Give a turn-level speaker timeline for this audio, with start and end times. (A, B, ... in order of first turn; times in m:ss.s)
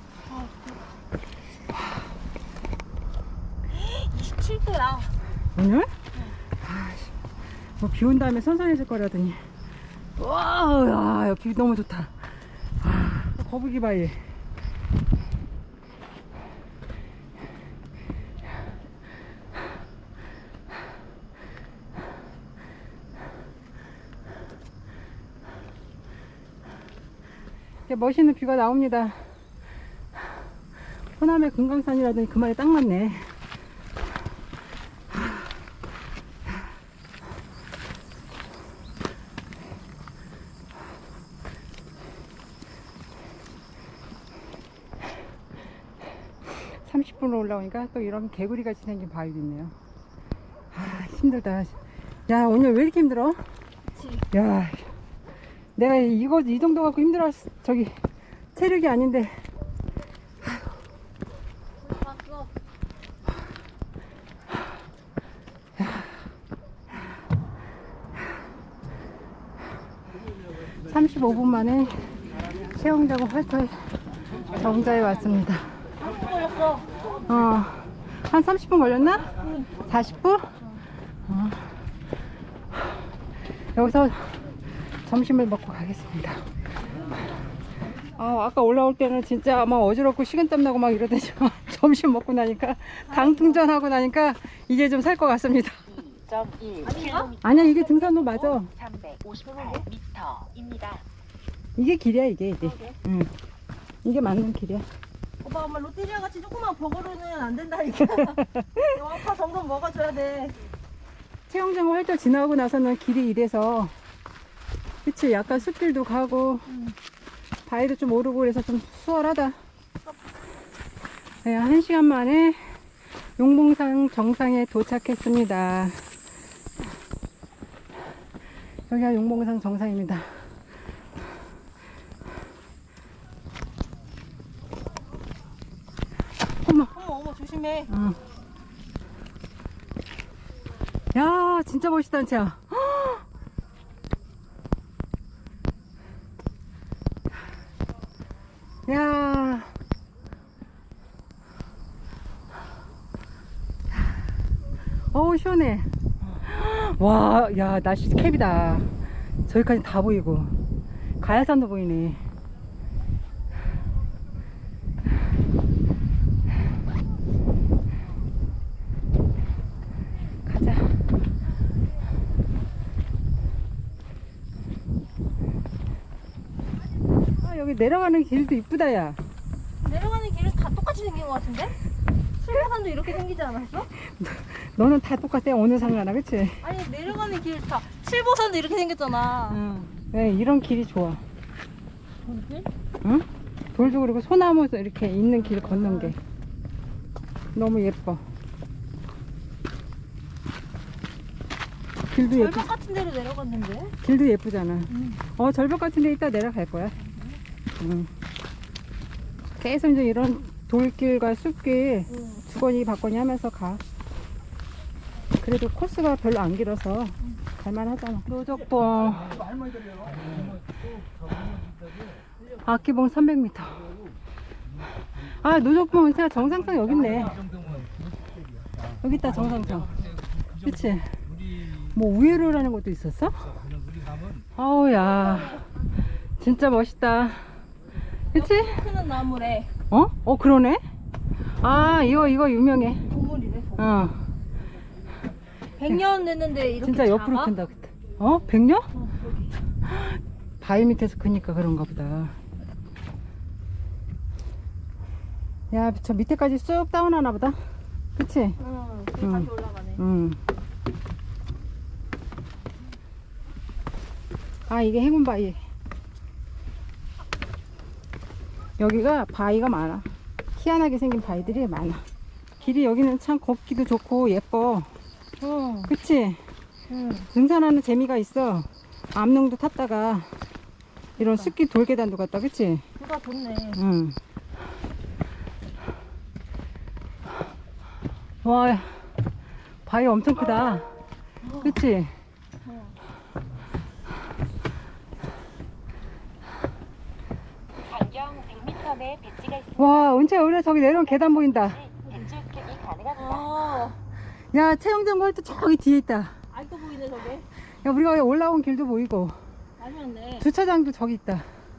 0:00.2-0:00.8 A
0:03.7-0:05.1 A
0:05.6-0:05.9 B
0:06.6-0:07.1 B
0:07.8-0:09.4 B
0:10.2-0:12.2 B
0:12.8-0:14.2 B
0:27.9-0:29.3 B
0:31.2-0:33.3 B
0:46.4-0:49.7 B
0:50.7-0:51.7 B
0:52.3-0:53.4 B
0:53.9-0:54.2 A
0:54.3-0:54.9 B
0:55.8-0:58.0 B
0:58.5-0:59.4 B
1:01.8-1:02.5 A
1:05.8-1:06.1 B
1:10.8-1:15.7 B
1:16.0-1:16.9 A
1:17.2-1:20.5 B
1:19.4-1:19.7 A
1:21.3-1:21.6 B
1:23.7-1:24.5 B
1:25.0-1:26.4 B
1:28.0-1:35.9 B
1:33.1-1:33.6 A
1:35.9-1:41.0 C
1:36.8-1:37.3 A
1:37.4-1:38.7 B
1:39.6-1:39.8 A
1:41.8-1:43.3 B
1:42.6-1:43.0 A
1:44.0-1:44.9 B
1:45.4-1:50.6 A
1:48.3-1:48.8 B
1:51.5-1:53.9 B
1:55.0-1:56.6 B
1:56.7-1:57.0 A
1:57.6-1:59.6 B
2:01.4-2:02.7 B
2:03.4-2:06.0 B
2:08.9-2:10.3 B
2:16.6-2:16.9 B
2:16.9-2:17.9 A
2:17.9-2:18.2 B
2:21.1-2:23.2 B
2:28.8-2:29.7 B
2:35.1-2:38.9 B
2:39.5-2:40.5 B
2:41.2-2:42.2 B
2:50.4-2:50.9 B
2:57.4-2:59.2 B
2:59.8-3:01.7 A
3:02.4-3:03.9 A
3:03.9-3:06.6 B
3:06.6-3:09.6 A
3:09.5-3:11.2 B
3:12.2-3:12.7 A
3:13.0-3:16.2 B
3:15.3-3:16.1 A
3:17.5-3:18.2 B
3:22.1-3:22.7 B
3:22.1-3:24.0 A
3:24.0-3:26.9 B
3:24.9-3:25.2 A
3:27.0-3:27.4 A
3:27.8-3:28.1 B
3:29.6-3:33.8 B
3:32.1-3:32.4 A
3:35.4-3:39.4 B
3:42.6-3:43.9 B
3:45.4-3:47.4 B
3:49.0-3:53.6 B
3:54.5-3:55.6 B
3:56.4-3:57.4 B
3:58.3-3:58.8 B
3:58.3-3:59.7 A
3:59.9-4:00.8 B
4:01.6-4:03.0 B
4:03.1-4:04.0 A
4:03.8-4:04.2 B
4:05.8-4:07.5 A
4:06.8-4:08.9 B
4:08.9-4:09.5 A
4:09.9-4:12.3 B
4:15.7-4:17.6 B
4:18.2-4:18.6 B
4:18.6-4:20.0 A
4:19.2-4:20.4 B
4:24.7-4:25.6 B
4:28.8-4:32.0 B
4:32.6-4:34.9 B
4:35.4-4:35.9 A
4:35.9-4:36.4 B
4:36.9-4:37.3 A
4:37.3-4:40.3 B
4:41.2-4:41.5 A
4:41.2-4:42.8 B
4:43.0-4:43.8 A
4:43.7-4:44.2 B
4:48.4-4:48.9 B
4:49.8-4:50.9 B
4:51.4-4:51.8 A
4:51.6-4:52.1 B
4:52.6-4:53.0 A
4:57.8-4:59.9 C
4:59.7-5:01.8 B
5:01.5-5:03.3 C
5:03.2-5:04.0 A
5:04.5-5:06.3 B
5:06.5-5:07.5 A
5:07.7-5:09.4 B
5:09.8-5:10.5 A
5:10.4-5:11.5 B